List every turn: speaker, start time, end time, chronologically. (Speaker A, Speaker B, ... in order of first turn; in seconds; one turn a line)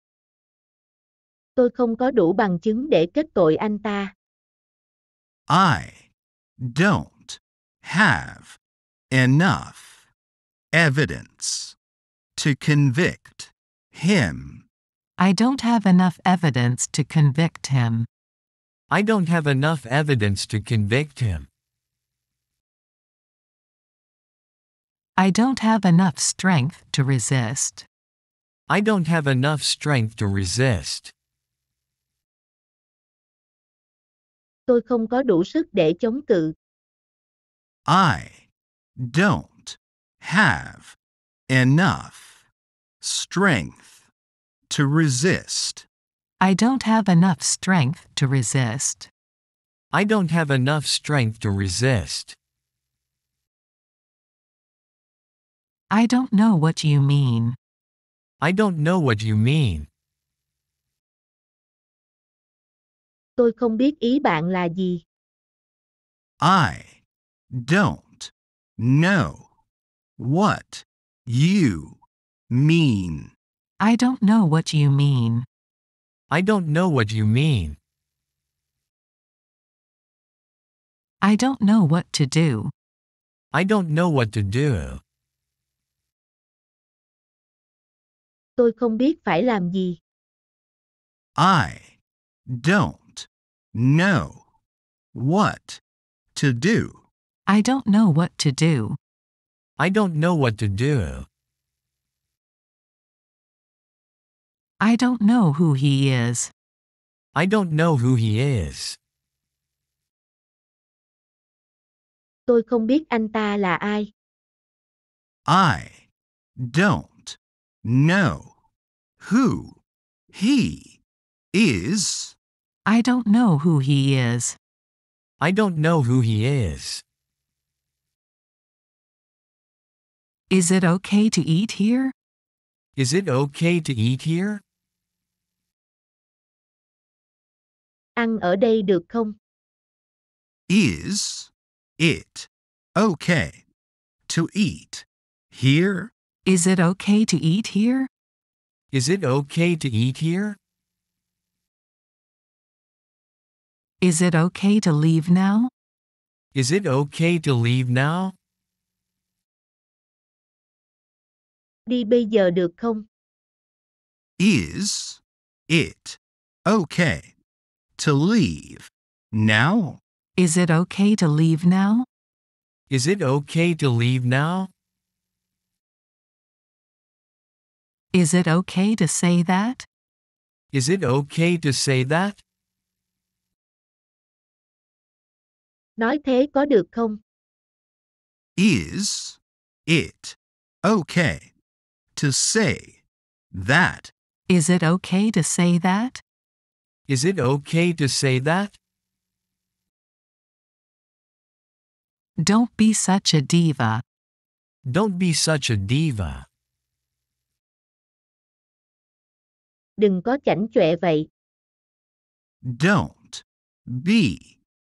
Speaker A: 1.6-4.1
Speaker B: 5.5-6.1
Speaker B: 6.6-8.6
Speaker B: 9.1-10.1
Speaker B: 10.7-11.8
Speaker B: 12.3-14.6
Speaker C: 15.2-18.1
Speaker D: 18.9-21.5
Speaker C: 25.2-27.9
Speaker D: 28.7-31.1
Speaker A: 34.7-36.5
Speaker B: 37.9-38.5
Speaker B: 39.0-41.0
Speaker B: 41.5-42.4
Speaker B: 43.0-44.0
Speaker B: 44.7-45.9
Speaker C: 46.4-49.1
Speaker D: 49.9-52.3
Speaker C: 55.9-57.6
Speaker D: 58.4-59.9
Speaker A: 63.4-65.0
Speaker B: 66.4-67.0
Speaker B: 67.5-69.5
Speaker B: 70.2-72.0
Speaker B: 72.5-73.3
Speaker C: 73.8-75.5
Speaker D: 76.3-77.8
Speaker C: 81.2-82.7
Speaker D: 83.5-85.0
Speaker A: 88.6-90.0
Speaker B: 91.4-94.4
Speaker B: 95.1-95.8
Speaker B: 96.3-97.0
Speaker C: 97.5-99.0
Speaker D: 99.8-101.3
Speaker C: 104.8-106.5
Speaker D: 107.3-109.0
Speaker A: 112.5-114.1
Speaker B: 115.5-116.0
Speaker B: 116.6-118.5
Speaker B: 119.2-119.8
Speaker B: 120.3-121.0
Speaker B: 121.5-122.3
Speaker C: 122.8-124.6
Speaker D: 125.4-127.0
Speaker C: 130.5-132.1
Speaker D: 132.9-134.6
Speaker A: 138.2-139.3
Speaker B: 140.7-143.6
Speaker B: 144.3-146.1
Speaker C: 146.4-148.1
Speaker D: 148.9-150.6
Speaker C: 154.0-155.7
Speaker D: 156.5-158.3
Speaker A: 161.8-163.1
Speaker B: 164.4-167.3
Speaker B: 168.0-170.0
Speaker C: 170.4-172.1
Speaker D: 172.9-174.7
Speaker C: 178.1-179.8
Speaker D: 180.7-182.4
Speaker A: 186.0-187.2
Speaker B: 188.6-191.5
Speaker B: 192.1-194.1
Speaker C: 194.5-196.2
Speaker D: 197.1-198.8
Speaker C: 202.4-204.0
Speaker D: 204.8-206.4
Speaker A: 210.0-211.3
Speaker B: 212.6-214.6